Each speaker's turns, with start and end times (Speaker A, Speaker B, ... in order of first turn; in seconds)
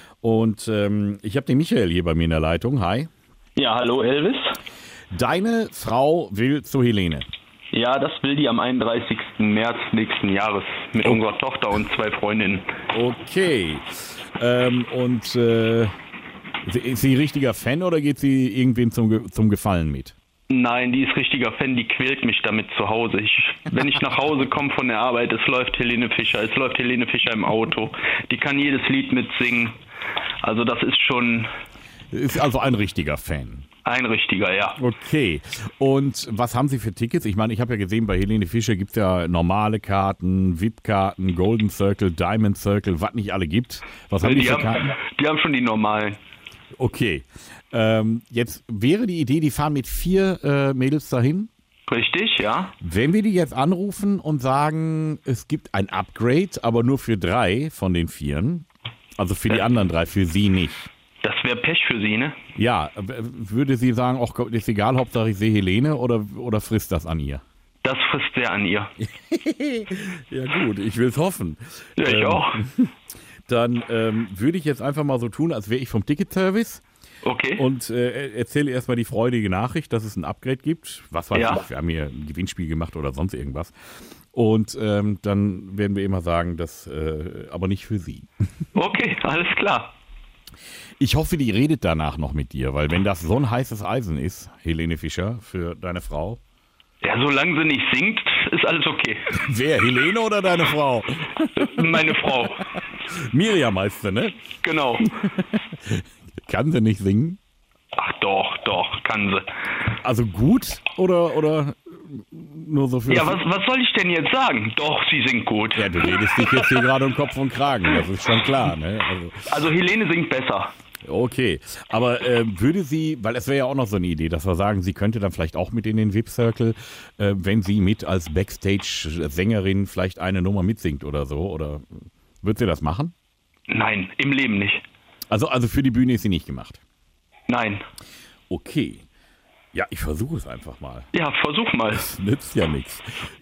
Speaker A: 0.2-3.1, 5.1-7.3, 12.9-15.9, 16.6-20.1, 32.1-33.6, 34.8-44.9, 46.7-51.5, 52.8-58.6, 59.2-60.9, 62.5-67.4, 69.0-72.9, 73.5-76.8, 77.6-83.7, 84.3-88.3, 91.0-96.4, 99.3-104.4, 105.0-107.4, 110.0-113.4, 115.8-119.5, 121.0-133.1, 135.3-136.8, 138.5-139.1, 139.7-141.1, 141.9-143.3
Speaker B: 3.6-4.6, 7.7-12.7, 20.5-29.8, 30.4-31.5, 33.8-34.8, 44.2-46.2, 51.9-52.7, 61.2-62.4, 67.8-68.9, 72.0-72.6, 77.2-77.6, 81.3-81.6, 88.7-89.9, 97.0-99.3, 101.5-102.7, 104.6-105.1, 108.0-109.5, 113.1-116.8, 119.5-120.7, 133.7-134.8, 137.5-137.8, 141.1-142.1